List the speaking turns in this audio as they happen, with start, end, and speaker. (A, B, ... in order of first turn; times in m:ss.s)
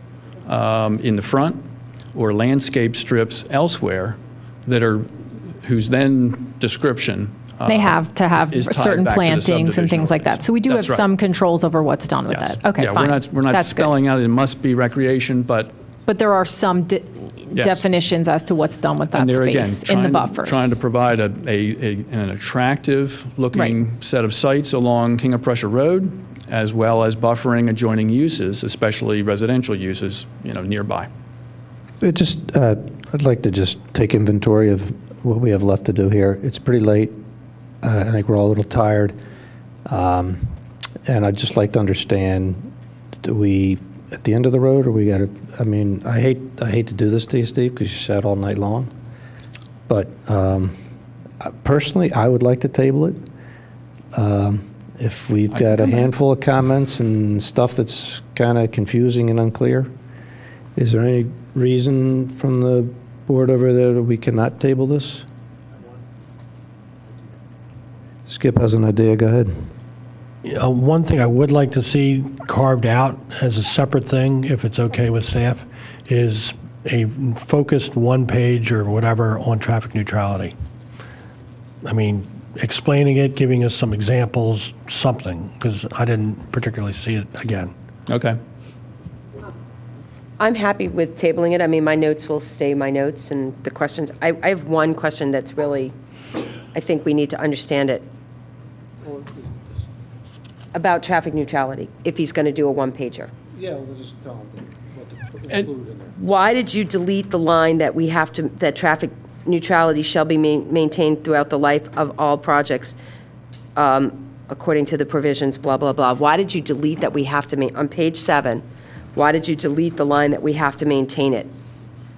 0:00.4-0:05.1 A
0:05.6-0:11.1 A
0:07.6-0:13.9 B
0:12.3-0:15.7 A
0:16.1-0:20.8 B
0:17.5-0:17.8 A
0:19.1-0:31.1 A
0:32.0-0:37.2 C
0:37.8-0:39.2 C
0:39.8-0:40.5 C
0:41.0-0:42.7 C
0:43.2-0:48.9 C
0:49.9-0:50.8 C
0:51.4-0:53.2 C
0:54.1-0:59.9 C
1:00.8-1:05.2 C
1:08.3-1:09.5 C
1:10.4-1:20.5 D
1:21.8-1:27.7 D
1:28.1-1:28.4 A
1:30.4-1:35.9 E
1:36.7-1:38.0 E
1:39.1-1:39.5 F
1:40.7-1:43.3 E
1:43.6-1:46.1 F
1:46.2-1:53.0 E
1:53.8-1:58.6 E
1:59.1-2:01.5 E